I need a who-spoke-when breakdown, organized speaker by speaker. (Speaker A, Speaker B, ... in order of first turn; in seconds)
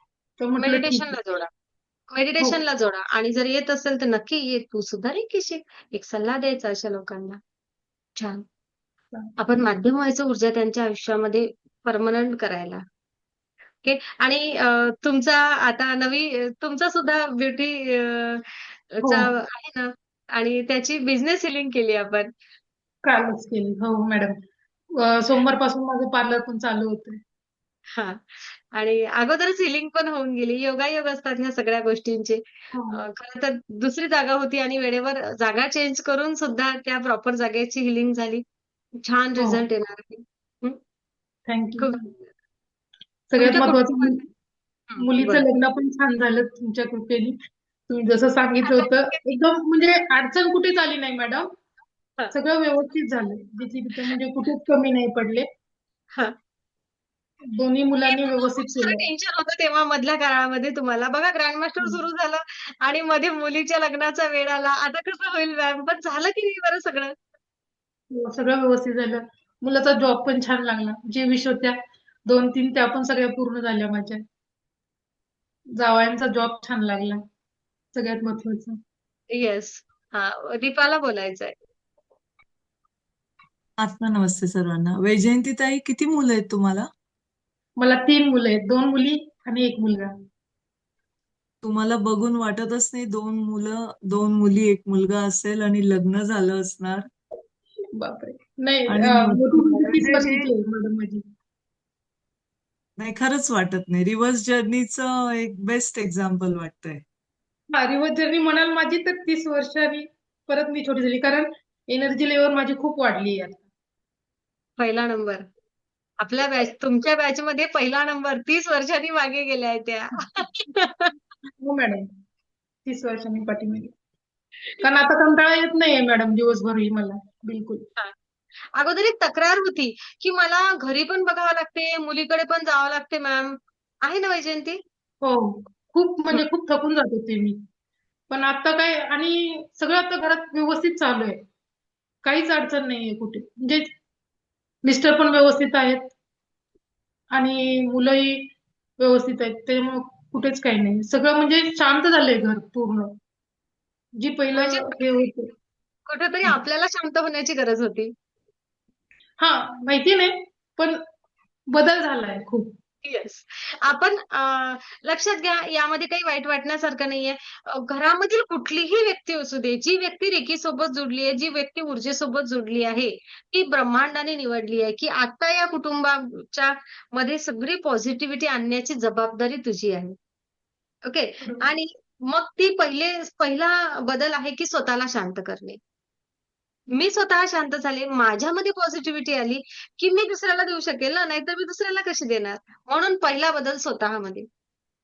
Speaker A: 0.4-1.1, 19.0-19.3, 23.1-24.4, 25.0-27.2, 32.7-33.0, 41.5-42.1, 43.3-44.2, 45.0-47.4, 47.9-51.5, 52.3-55.5, 57.5-59.0, 68.1-74.2, 75.8-77.2, 77.9-78.8, 87.8-90.1, 98.0-101.2, 107.7-113.7, 120.1-120.5, 121.6-122.1, 122.8-123.9, 124.8-127.8, 135.2-137.6, 138.3-141.4, 142.2-143.9, 144.8-146.1, 147.3-153.2, 154.2-155.5, 159.4-161.0, 161.7-162.7, 181.4-181.7
Speaker B: 0.6-1.5, 2.1-7.4, 8.2-8.4, 9.4-12.8, 13.8-22.3, 27.9-38.4, 39.0-40.8, 41.8-42.2, 43.4-44.2, 44.9-45.5, 48.6-49.2, 58.1-67.2, 79.3-81.6, 114.8-115.5, 116.2-121.1, 128.7-134.8, 154.5-155.3, 156.1-158.1, 163.0-180.2, 181.1-185.8, 186.9-194.5
Speaker C: 83.8-86.9, 91.6-97.0, 98.9-100.5, 103.0-107.0